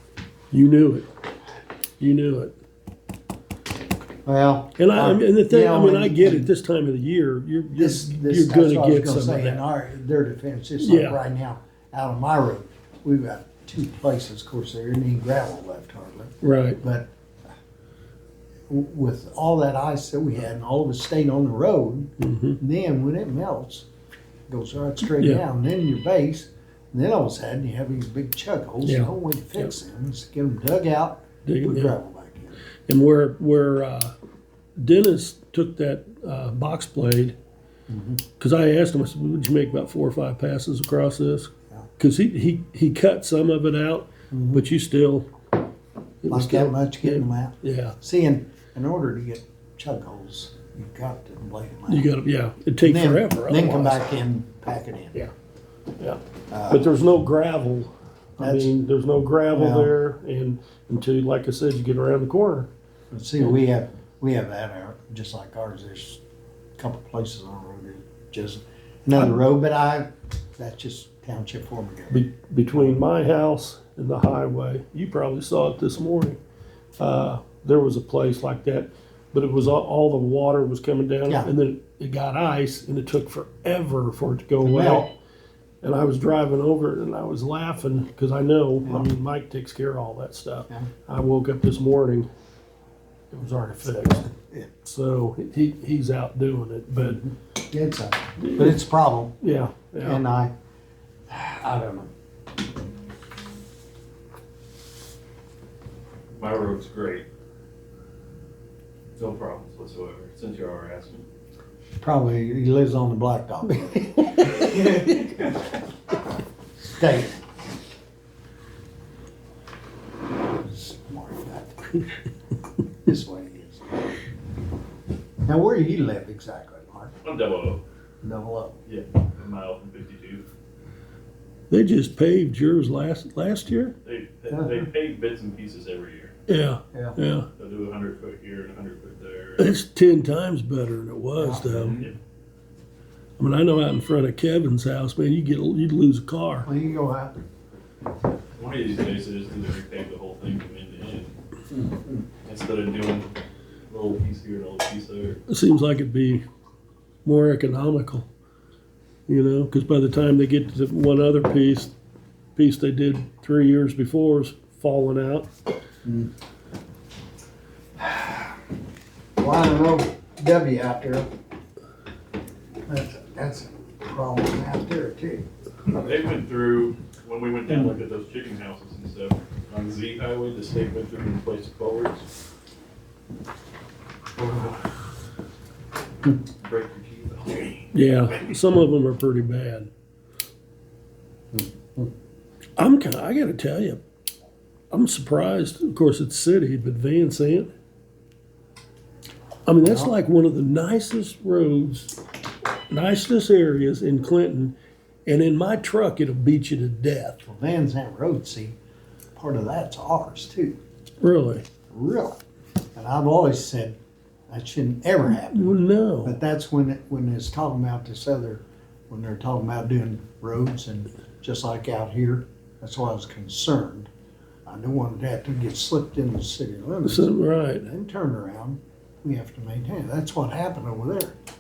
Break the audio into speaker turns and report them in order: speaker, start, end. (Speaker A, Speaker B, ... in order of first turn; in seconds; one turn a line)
Speaker A: 0.5-1.1
Speaker A: 2.0-2.5
Speaker B: 4.2-6.5
Speaker A: 4.8-9.6
Speaker B: 7.7-17.1
Speaker A: 10.8-11.2
Speaker A: 16.4-16.8
Speaker B: 18.7-23.9
Speaker A: 22.2-22.6
Speaker B: 24.5-32.6
Speaker A: 25.1-25.4
Speaker A: 28.9-29.7
Speaker A: 31.4-31.9
Speaker A: 32.9-34.1
Speaker A: 34.8-37.4
Speaker B: 37.9-38.2
Speaker A: 38.4-45.3
Speaker B: 44.3-44.6
Speaker A: 46.2-48.0
Speaker B: 46.3-52.1
Speaker A: 51.9-54.1
Speaker B: 52.8-55.2
Speaker A: 56.0-62.7
Speaker B: 56.5-56.9
Speaker B: 58.4-58.8
Speaker B: 59.5-60.0
Speaker B: 63.1-66.2
Speaker B: 66.8-72.2
Speaker A: 72.1-76.4
Speaker A: 77.0-85.1
Speaker B: 81.3-81.5
Speaker B: 84.6-85.1
Speaker A: 85.8-92.3
Speaker B: 88.8-89.1
Speaker A: 93.3-94.3
Speaker B: 93.8-94.7
Speaker A: 94.8-97.2
Speaker B: 97.0-99.4
Speaker A: 98.4-98.8
Speaker A: 99.4-100.2
Speaker B: 100.0-100.5
Speaker B: 101.3-102.1
Speaker C: 106.4-107.3
Speaker C: 109.2-111.2
Speaker B: 112.0-115.3
Speaker C: 114.7-115.2
Speaker B: 116.8-117.4
Speaker B: 120.5-121.8
Speaker B: 123.0-124.0
Speaker B: 125.4-127.2
Speaker C: 127.2-127.8
Speaker B: 128.2-128.8
Speaker C: 128.9-130.4
Speaker A: 131.7-134.0
Speaker C: 134.0-136.3
Speaker B: 134.5-134.9
Speaker A: 136.5-137.5
Speaker B: 136.9-137.2
Speaker C: 137.6-139.7
Speaker A: 139.6-142.1
Speaker B: 141.4-141.7
Speaker C: 141.7-142.2
Speaker A: 143.4-146.7
Speaker B: 146.6-147.4
Speaker C: 148.6-151.3
Speaker B: 151.7-152.2
Speaker C: 152.4-153.4
Speaker C: 153.9-155.4
Speaker A: 155.5-156.4
Speaker A: 157.2-158.3
Speaker A: 159.3-161.9
Speaker A: 162.6-165.5
Speaker B: 166.0-166.3
Speaker B: 168.0-168.5
Speaker B: 169.4-171.3
Speaker B: 172.9-175.5
Speaker C: 175.9-182.3
Speaker C: 184.4-184.8
Speaker C: 186.6-187.9
Speaker A: 187.9-189.9
Speaker B: 191.5-192.1
Speaker A: 192.8-194.0
Speaker A: 194.9-197.7
Speaker A: 199.7-202.1
Speaker B: 199.8-200.1
Speaker A: 202.9-204.8
Speaker A: 205.3-207.4
Speaker B: 207.4-208.8
Speaker B: 209.3-210.8
Speaker A: 211.2-211.7
Speaker B: 211.9-212.4
Speaker B: 212.9-214.0
Speaker B: 214.5-224.1
Speaker A: 215.3-216.4
Speaker B: 224.7-231.4
Speaker A: 227.1-227.8